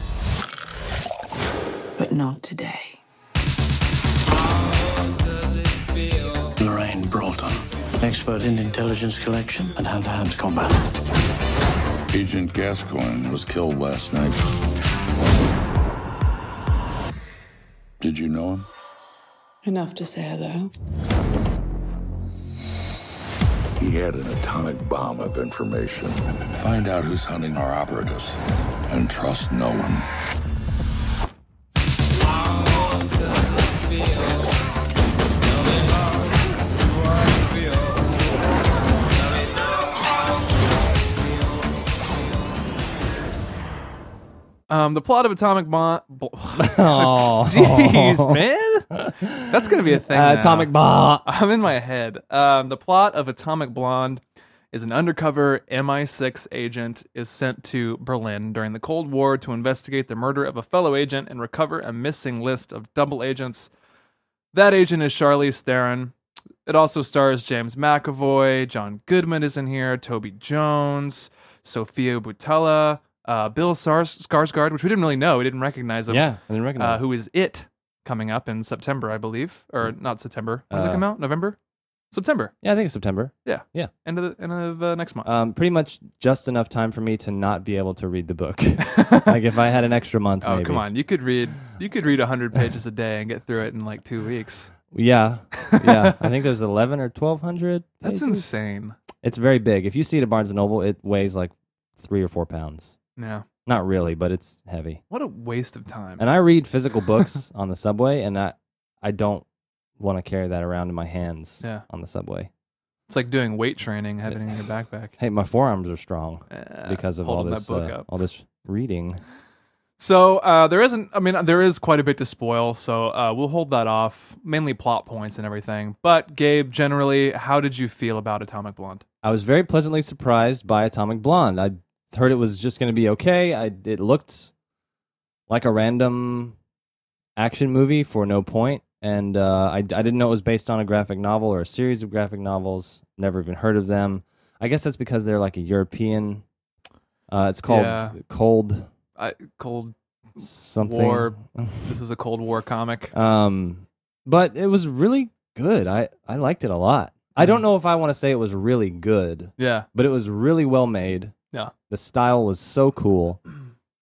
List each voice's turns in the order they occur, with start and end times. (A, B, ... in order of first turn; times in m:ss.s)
0:02.0-0:03.0 A
0:06.6-0:10.8 B
0:12.1-0:14.4 C
0:18.0-0:18.6 C
0:19.6-0:20.7 A
0:23.8-0:30.1 C
0:44.7-0:48.9 D
0:46.5-0:51.3 E
0:49.5-1:03.7 D
1:04.5-1:06.1 D
1:06.6-1:16.2 D
1:16.1-1:17.0 E
1:16.8-1:21.6 D
1:20.7-1:21.0 E
1:22.1-1:22.5 D
1:22.6-1:23.9 E
1:23.4-1:25.3 D
1:25.2-1:30.8 E
1:28.8-1:29.3 D
1:30.4-1:34.7 D
1:34.9-1:38.6 E
1:35.6-1:36.1 D
1:38.0-1:39.0 D
1:39.2-1:43.0 E
1:43.2-1:43.4 D
1:43.6-1:45.0 E
1:45.1-1:46.2 D
1:46.2-1:49.4 E
1:50.0-1:52.5 E
1:53.1-1:55.1 D
1:55.2-1:59.2 E
1:56.5-1:58.1 D
2:00.0-2:09.0 D
2:09.2-2:14.5 E
2:15.5-2:16.5 E
2:17.4-2:26.4 E
2:27.3-2:28.9 E
2:27.7-2:28.2 D
2:29.2-2:33.1 D
2:30.4-2:31.9 E
2:33.1-2:41.3 E
2:37.4-2:37.6 D
2:39.6-2:39.9 D
2:41.9-2:43.4 E